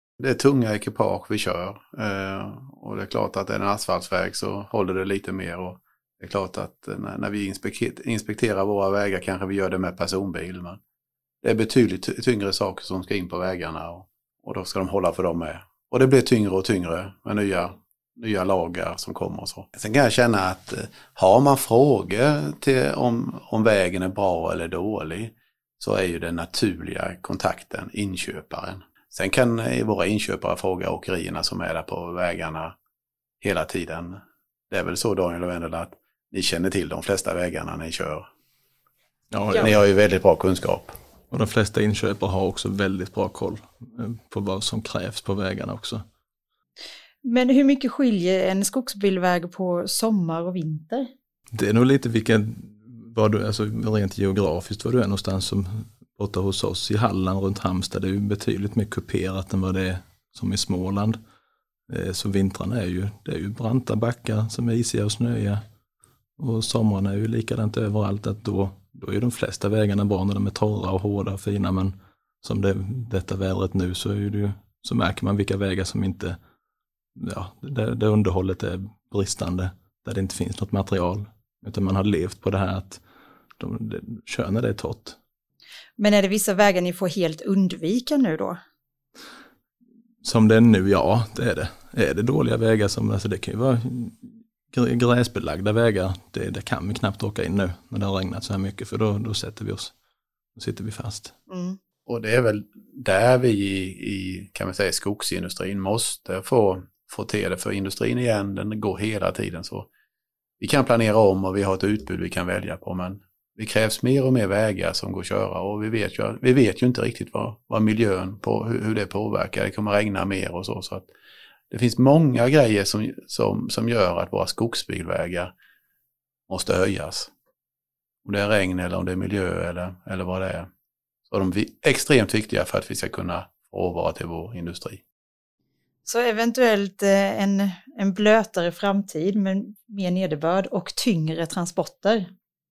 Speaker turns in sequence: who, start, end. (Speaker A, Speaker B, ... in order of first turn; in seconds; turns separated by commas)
Speaker A: 0.2-10.8, Speaker A: 11.4-32.8, Speaker A: 33.4-38.3, Speaker B: 39.3-39.7, Speaker A: 39.6-41.0, Speaker B: 41.3-46.0, Speaker C: 47.2-51.1, Speaker B: 51.6-61.2, Speaker B: 61.9-65.6, Speaker B: 66.4-76.4, Speaker B: 77.2-83.0, Speaker B: 83.6-85.2, Speaker C: 86.0-88.6, Speaker B: 90.2-99.9, Speaker B: 100.6-101.3, Speaker C: 101.5-101.8, Speaker A: 102.1-109.9, Speaker A: 110.6-121.1, Speaker A: 121.7-125.5, Speaker A: 126.5-127.3, Speaker A: 128.2-130.7, Speaker A: 131.3-135.0, Speaker C: 136.1-142.3